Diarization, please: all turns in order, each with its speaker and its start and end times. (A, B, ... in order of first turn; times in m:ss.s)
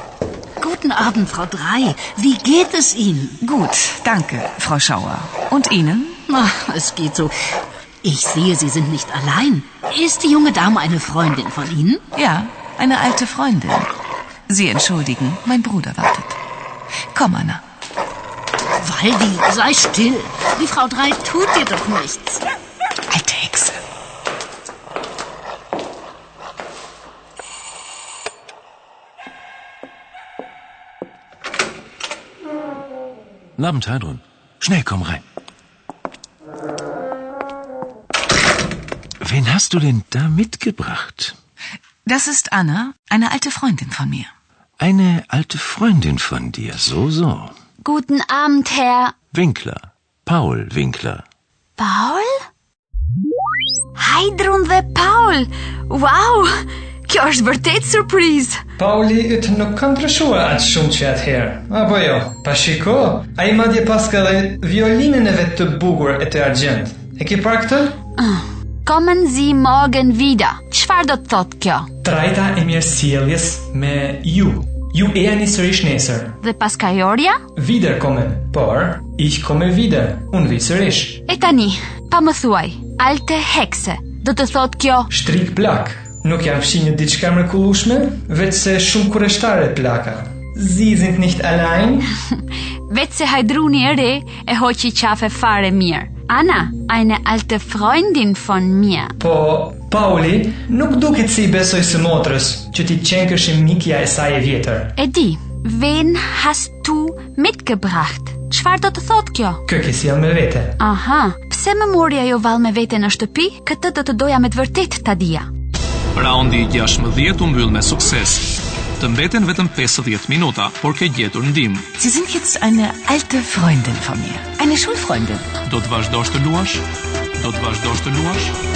0:00.6-0:03.4 A
0:03.4-0:06.2 B
0:06.3-0:07.4 A
0:08.0-0:12.0 A
0:12.1-0:13.9 B
0:14.5-0:16.4 B
0:17.1-0:17.6 B
0:18.8-0:22.4 A
0:23.1-0:23.8 B
0:33.6-0:35.2 C
0:39.2-0:41.3 C
0:42.0-0:44.3 B
0:44.8-0:47.5 C
0:47.8-0:49.1 D
0:49.3-0:51.2 C
0:51.8-0:52.4 D
0:54.0-0:56.5 D
0:57.1-0:58.6 D
0:58.8-1:08.0 E
1:08.2-1:11.9 D
1:12.0-1:16.4 E
1:16.4-1:17.4 D
1:17.5-1:21.2 E
1:21.3-1:25.1 D
1:25.1-1:32.1 E
1:32.9-1:39.1 D
1:39.2-1:44.9 E
1:45.0-1:49.6 D
1:49.6-1:50.8 E
1:50.8-1:55.5 D
1:56.1-2:01.9 F
2:02.0-2:05.5 B
2:05.6-2:06.8 F
2:07.4-2:08.6 F